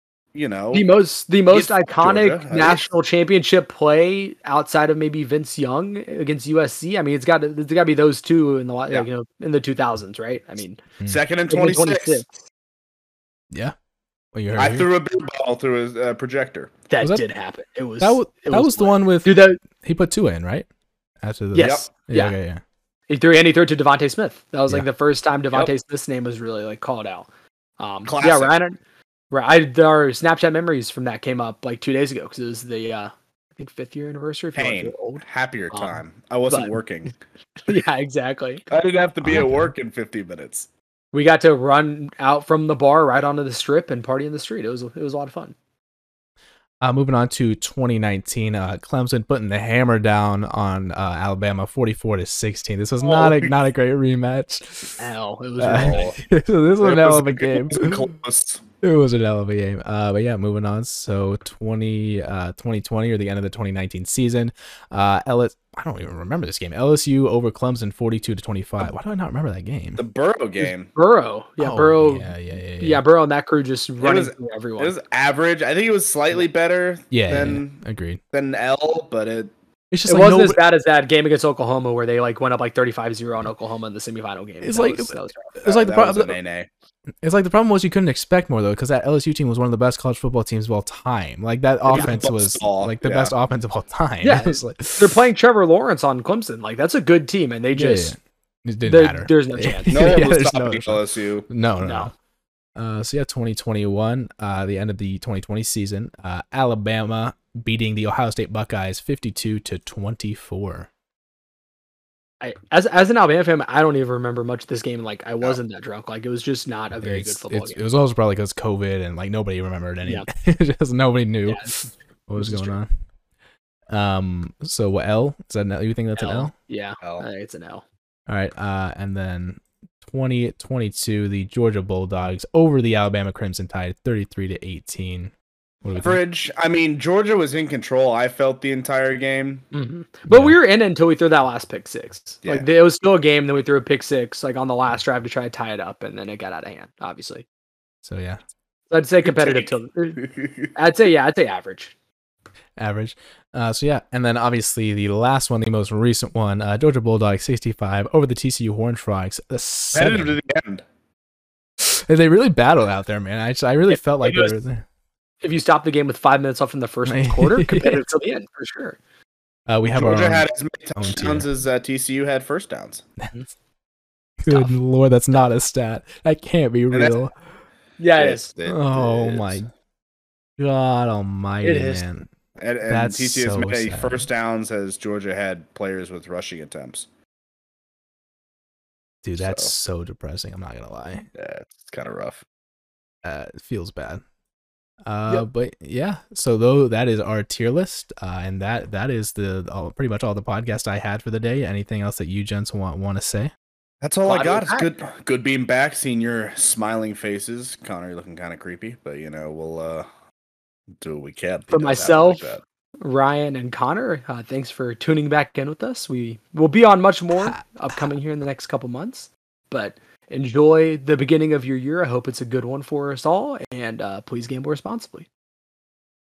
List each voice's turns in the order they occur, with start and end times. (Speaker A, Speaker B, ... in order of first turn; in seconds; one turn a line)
Speaker A: 0.3-0.9
Speaker B: 0.7-10.8
Speaker A: 1.5-2.8
Speaker A: 11.1-12.2
Speaker B: 11.5-12.3
Speaker C: 14.3-14.9
Speaker A: 14.6-16.7
Speaker B: 16.9-19.6
Speaker C: 18.0-20.7
Speaker C: 21.2-22.6
Speaker B: 21.5-22.3
Speaker A: 21.6-21.9
Speaker B: 23.1-27.3
Speaker B: 27.8-28.8
Speaker A: 28.1-28.6
Speaker B: 29.3-36.8
Speaker A: 34.5-37.1
Speaker B: 37.7-38.6
Speaker A: 38.7-40.7
Speaker C: 39.2-39.7
Speaker B: 41.1-45.5
Speaker C: 46.8-55.0
Speaker A: 53.0-53.5
Speaker B: 55.0-56.1
Speaker C: 55.6-58.1
Speaker A: 55.7-56.2
Speaker A: 56.8-58.6
Speaker C: 58.8-70.0
Speaker A: 70.0-70.9
Speaker B: 70.9-75.0
Speaker C: 71.6-73.0
Speaker A: 74.0-79.5
Speaker C: 77.1-78.2
Speaker C: 79.9-80.6
Speaker B: 80.1-85.5
Speaker C: 84.6-86.4
Speaker A: 85.6-86.7
Speaker C: 87.2-95.2
Speaker A: 91.9-93.3
Speaker B: 94.2-98.2
Speaker C: 97.7-102.1
Speaker B: 98.8-100.2
Speaker A: 99.9-101.5
Speaker B: 101.8-102.1
Speaker C: 102.8-110.9
Speaker B: 112.4-117.8
Speaker C: 117.0-122.9
Speaker B: 121.5-121.8
Speaker B: 122.4-122.8
Speaker C: 123.9-126.5
Speaker B: 126.2-127.8
Speaker A: 127.0-127.3
Speaker C: 128.3-135.3
Speaker C: 135.8-136.2
Speaker A: 136.0-139.7
Speaker B: 139.7-147.4
Speaker C: 140.3-140.6
Speaker C: 148.1-148.4
Speaker B: 148.9-151.9
Speaker A: 149.2-150.7
Speaker C: 152.8-160.4
Speaker A: 159.9-160.8
Speaker C: 161.8-164.8
Speaker B: 163.9-164.5
Speaker B: 165.4-169.0
Speaker C: 167.1-168.1
Speaker C: 169.7-171.5
Speaker A: 169.9-173.1
Speaker C: 174.4-177.3
Speaker A: 176.9-177.2
Speaker B: 178.0-178.5
Speaker A: 178.2-179.6
Speaker C: 178.7-179.7
Speaker C: 180.6-182.3
Speaker B: 181.6-182.0
Speaker A: 182.6-187.1
Speaker C: 182.9-184.3
Speaker C: 189.2-191.3
Speaker A: 189.4-189.7
Speaker A: 191.3-192.4
Speaker C: 193.2-194.2
Speaker C: 195.1-203.5
Speaker A: 204.0-210.1
Speaker B: 204.3-204.9
Speaker A: 211.0-212.6
Speaker B: 211.7-212.5
Speaker B: 213.0-225.3
Speaker C: 217.4-218.1